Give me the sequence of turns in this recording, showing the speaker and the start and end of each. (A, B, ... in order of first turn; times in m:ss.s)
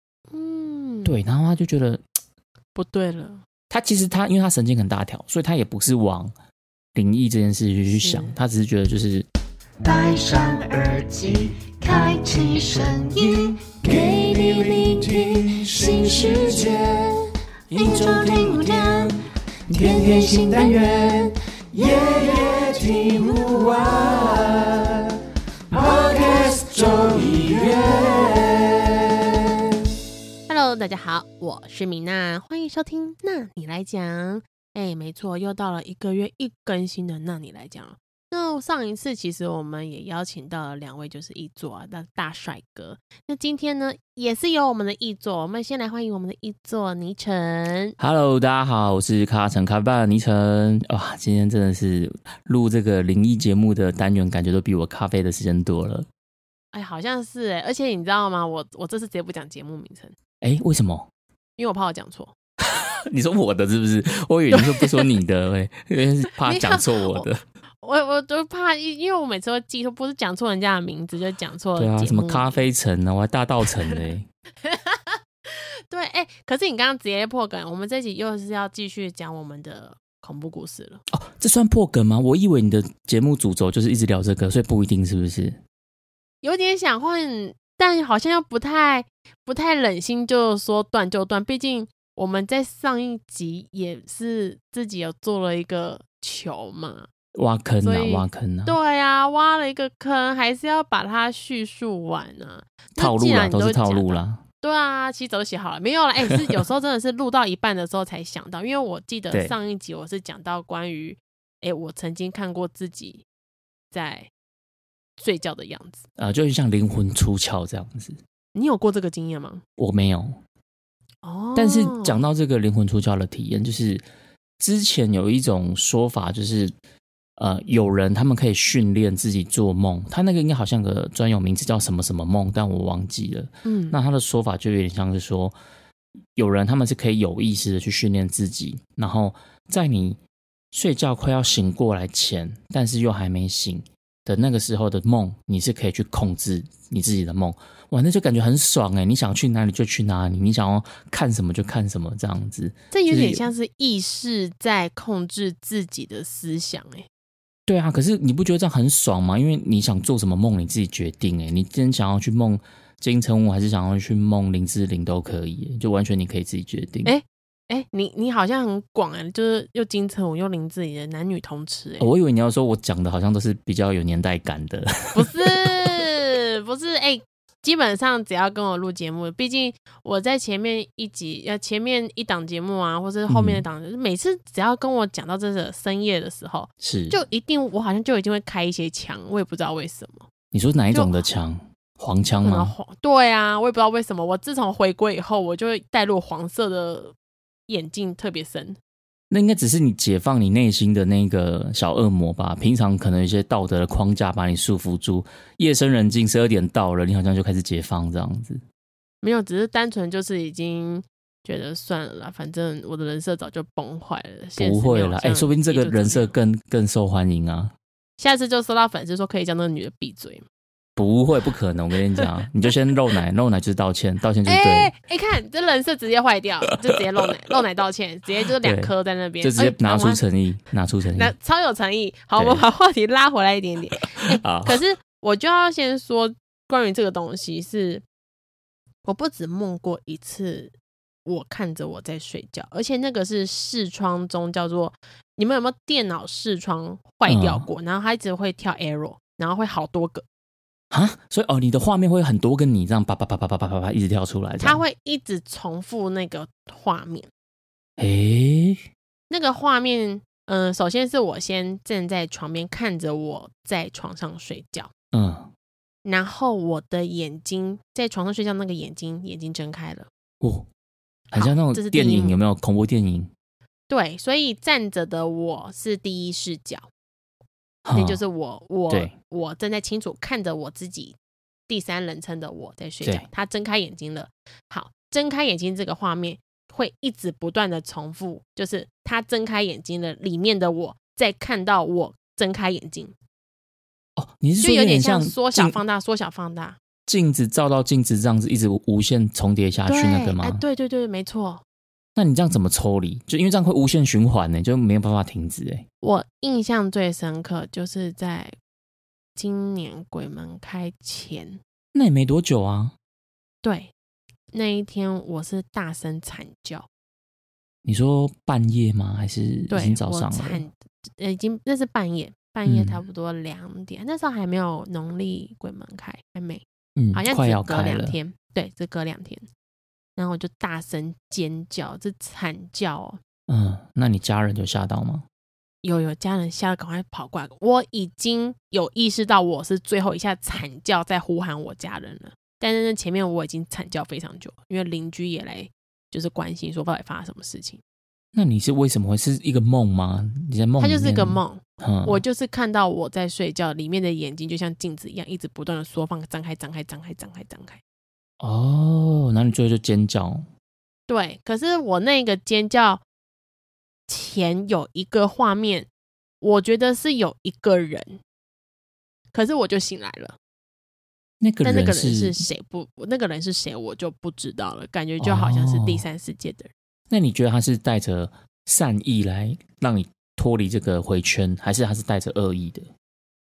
0:00.3-0:01.2 A
0:01.0-0:02.0 B
0:02.8-0:03.4 A
0:03.7-0:06.3 B
0:07.0-0:09.3 B
0:07.9-0:08.4 A
0:09.8-0:25.2 C
0:25.7-0:29.3 C
0:30.5-0:48.0 A
0:48.0-0:56.1 B
0:56.7-1:00.2 A
1:00.4-1:01.1 B
1:01.6-1:02.3 A
1:02.7-1:07.4 B
1:04.5-1:05.1 A
1:06.4-1:07.3 A
1:07.8-1:12.6 A
1:11.8-1:14.3 B
1:14.6-1:21.0 A
1:21.1-1:25.6 B
1:26.4-1:37.1 A
1:37.3-1:38.8 B
1:37.8-1:53.2 A
1:43.0-1:44.4 B
1:53.9-1:54.3 A
1:55.2-1:56.0 A
1:56.2-1:58.2 B
1:58.6-1:59.6 A
1:59.8-2:00.4 B
2:01.2-2:02.2 A
2:01.6-2:04.0 B
2:04.6-2:06.7 B
2:07.4-2:15.6 B
2:13.6-2:14.0 A
2:16.3-2:20.2 B
2:20.7-2:33.5 B
2:32.9-2:37.1 A
2:37.7-2:47.1 B
2:47.0-2:52.1 A
2:52.0-2:56.0 B
2:55.1-3:10.3 A
3:03.3-3:03.6 B
3:06.8-3:07.2 B
3:10.5-3:12.8 B
3:10.9-3:11.2 A
3:12.4-3:17.2 A
3:17.7-3:18.8 A
3:19.3-3:28.6 B
3:29.2-3:36.3 A
3:34.6-3:37.7 B
3:38.2-3:40.4 A
3:41.0-3:44.9 B
3:44.5-3:50.2 A
3:46.7-3:47.3 B
3:48.6-3:51.3 B
3:51.1-3:58.0 A
3:52.4-3:52.6 B
3:54.0-3:54.8 B
3:59.0-4:00.7 A
4:01.2-4:10.2 A
4:07.2-4:07.7 B
4:10.9-4:14.8 B
4:14.6-4:17.3 A
4:18.0-4:18.8 B
4:19.3-4:24.9 A
4:25.1-4:25.5 B
4:26.0-4:30.1 A
4:30.4-4:30.7 B
4:31.3-4:32.4 A
4:31.3-4:33.3 B
4:33.9-4:36.9 A
4:37.8-4:38.2 B
4:38.0-4:41.2 A
4:41.7-4:53.1 A
4:54.2-4:55.8 B
4:54.6-4:56.8 A
4:57.1-5:00.6 B
4:59.9-5:01.6 A
5:02.2-5:05.9 B
5:06.0-5:08.6 A
5:09.4-5:11.6 A
5:11.9-5:12.9 B
5:13.6-5:13.9 A
5:14.5-5:16.9 A
5:17.8-5:20.6 B
5:19.7-5:29.5 A
5:22.6-5:23.0 B
5:27.0-5:28.2 B
5:30.2-5:33.2 A
5:33.5-5:35.2 B
5:35.8-5:47.8 A
5:48.4-5:52.2 B
5:50.8-5:57.8 A
5:58.4-6:00.5 B
6:01.1-6:03.0 A
6:04.1-6:05.9 A
6:06.4-6:08.2 A
6:09.3-6:10.4 A
6:11.4-6:12.4 B
6:11.6-6:16.7 A
6:15.2-6:16.0 B
6:17.1-6:22.9 B